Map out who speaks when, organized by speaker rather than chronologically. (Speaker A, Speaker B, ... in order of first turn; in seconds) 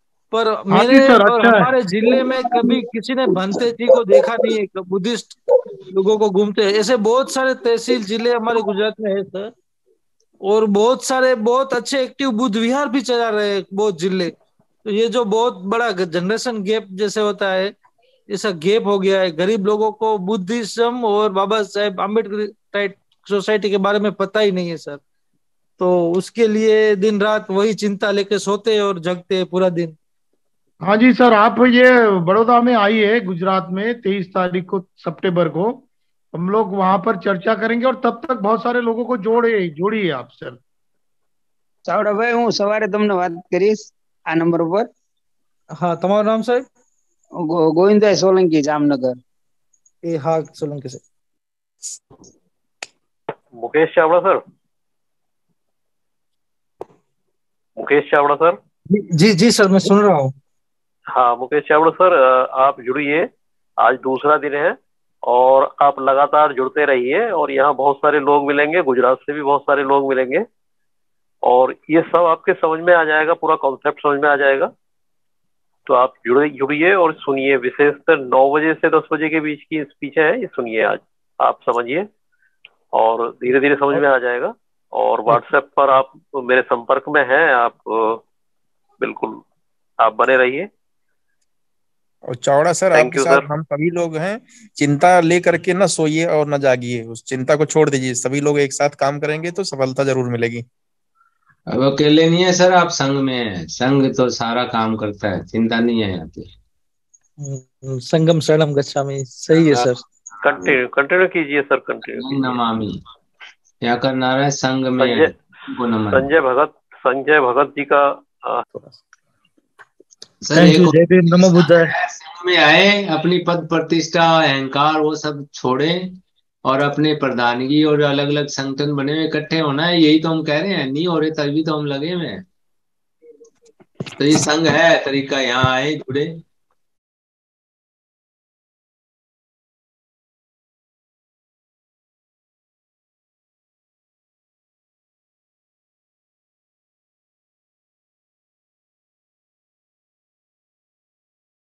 Speaker A: 0.3-9.5, 10.4-14.3, 14.8-17.7, 18.3-25.0, 25.8-30.0, 45.8-46.6, 50.0-51.0, 58.9-60.3, 107.4-110.0, 120.5-121.9
Speaker B: 0.7-1.7, 30.8-40.6
Speaker C: 41.9-44.9, 47.4-49.2
Speaker D: 53.6-54.4, 57.8-58.6, 61.1-63.3, 63.8-64.8, 65.3-70.5, 71.5-74.7, 75.9-82.1, 83.0-88.2, 89.0-89.4, 90.0-90.7, 92.9-93.4, 110.4-112.6, 115.0-115.3, 116.1-118.6
Speaker E: 92.3-100.7
Speaker F: 101.7-106.5, 112.1-113.0, 113.8-116.3, 120.4-126.0, 126.6-132.4, 134.2-136.3